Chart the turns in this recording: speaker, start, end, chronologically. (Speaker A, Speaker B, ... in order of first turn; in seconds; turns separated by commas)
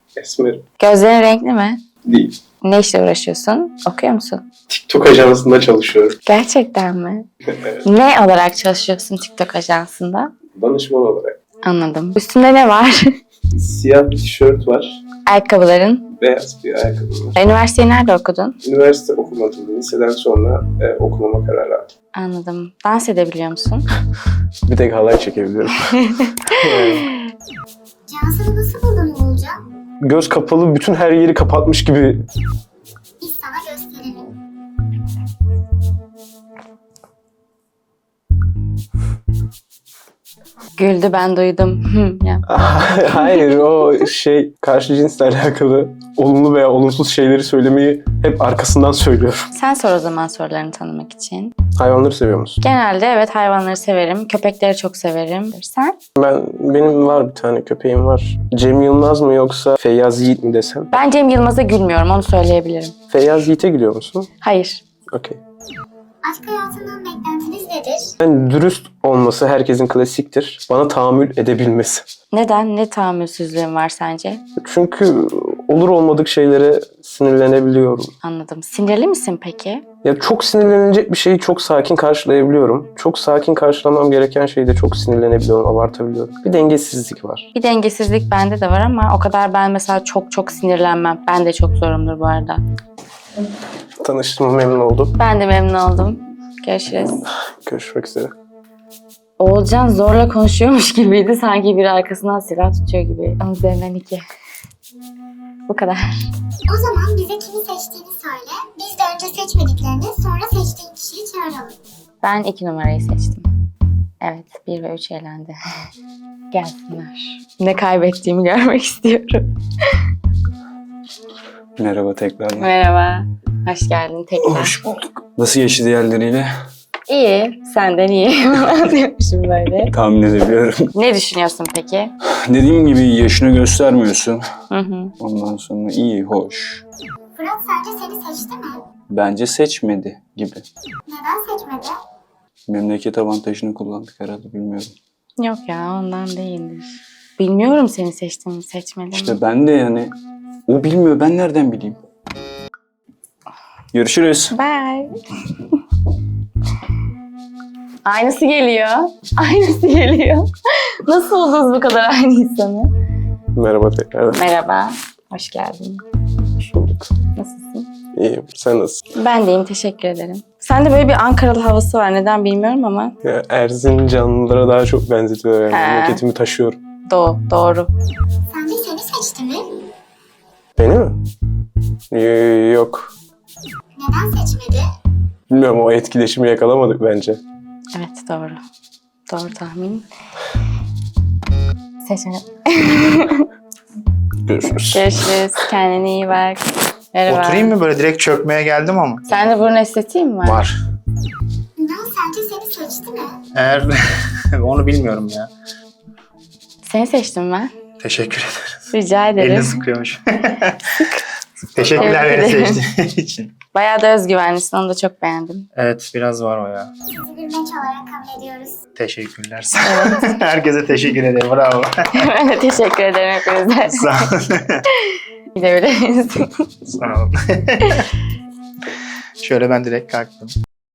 Speaker A: 0.2-0.6, Speaker B: 0.8-1.8, Speaker A: 2.0-2.4, Speaker B: 2.6-4.4, Speaker A: 4.7-6.2, Speaker B: 6.3-7.3, Speaker B: 7.8-10.3, Speaker A: 10.6-11.4, Speaker B: 11.6-13.1, Speaker A: 13.5-15.0, Speaker B: 15.3-16.1, Speaker A: 16.2-17.4, Speaker B: 17.4-18.6, Speaker A: 18.6-21.9, Speaker B: 22.1-23.9, Speaker A: 24.7-27.1, Speaker B: 26.0-27.1, Speaker C: 28.1-29.6, Speaker A: 30.0-32.2, Speaker C: 33.2-34.4, Speaker B: 40.8-42.4, Speaker A: 42.5-49.5, Speaker B: 49.5-51.5, Speaker A: 51.8-52.6, Speaker B: 52.6-56.0, Speaker A: 56.2-60.9, Speaker B: 60.9-62.9, Speaker A: 63.1-64.3, Speaker B: 64.4-64.8, Speaker A: 65.1-65.4, Speaker C: 66.2-68.1, Speaker A: 68.2-72.1, Speaker B: 72.3-74.4, Speaker A: 74.6-78.1, Speaker B: 78.2-79.8, Speaker A: 80.0-87.5, Speaker B: 87.5-92.6, Speaker A: 94.0-95.2, Speaker B: 95.2-97.2, Speaker A: 97.6-98.3, Speaker B: 99.4-104.2, Speaker B: 105.7-106.2, Speaker C: 106.7-111.8, Speaker B: 112.2-113.5, Speaker B: 114.2-115.6, Speaker B: 116.5-119.5, Speaker D: 121.8-122.7, Speaker B: 122.6-124.8, Speaker D: 124.5-126.5, Speaker B: 127.1-129.9, Speaker D: 129.9-130.9, Speaker B: 130.9-132.1, Speaker D: 132.4-134.4, Speaker B: 134.7-135.1, Speaker D: 135.2-136.8, Speaker C: 137.4-138.8, Speaker D: 139.1-140.7, Speaker C: 141.1-142.0, Speaker D: 142.7-144.9, Speaker B: 145.4-149.4, Speaker D: 149.1-150.1, Speaker D: 150.7-152.0, Speaker D: 153.9-154.6, Speaker B: 154.5-155.1, Speaker B: 158.1-160.5, Speaker B: 161.0-162.9, Speaker A: 163.6-164.4, Speaker B: 164.3-166.0, Speaker A: 166.6-167.1, Speaker B: 167.4-167.9, Speaker A: 168.2-169.0, Speaker B: 169.2-173.1, Speaker A: 173.2-176.8, Speaker B: 175.7-176.2, Speaker B: 177.1-177.9, Speaker C: 178.5-179.8, Speaker A: 180.8-181.2, Speaker A: 182.1-183.1, Speaker C: 184.0-184.9, Speaker A: 185.5-187.4, Speaker B: 187.9-188.6, Speaker B: 189.3-190.1, Speaker B: 192.0-193.5, Speaker A: 194.5-195.2, Speaker B: 194.9-196.6, Speaker B: 197.1-197.8, Speaker E: 197.3-199.2, Speaker B: 199.3-200.7, Speaker E: 200.4-200.7, Speaker C: 201.8-203.4, Speaker E: 203.5-203.9, Speaker E: 204.6-205.5, Speaker B: 206.8-207.7, Speaker E: 208.0-208.8, Speaker B: 208.9-209.8, Speaker E: 209.4-210.8, Speaker E: 211.7-213.5, Speaker B: 211.9-212.8, Speaker B: 213.7-215.7, Speaker E: 215.8-216.9, Speaker C: 217.1-218.8, Speaker E: 218.9-222.3, Speaker B: 219.8-220.2, Speaker B: 222.2-224.1, Speaker E: 223.9-224.8, Speaker B: 225.5-226.6, Speaker E: 226.9-228.1, Speaker E: 229.4-230.5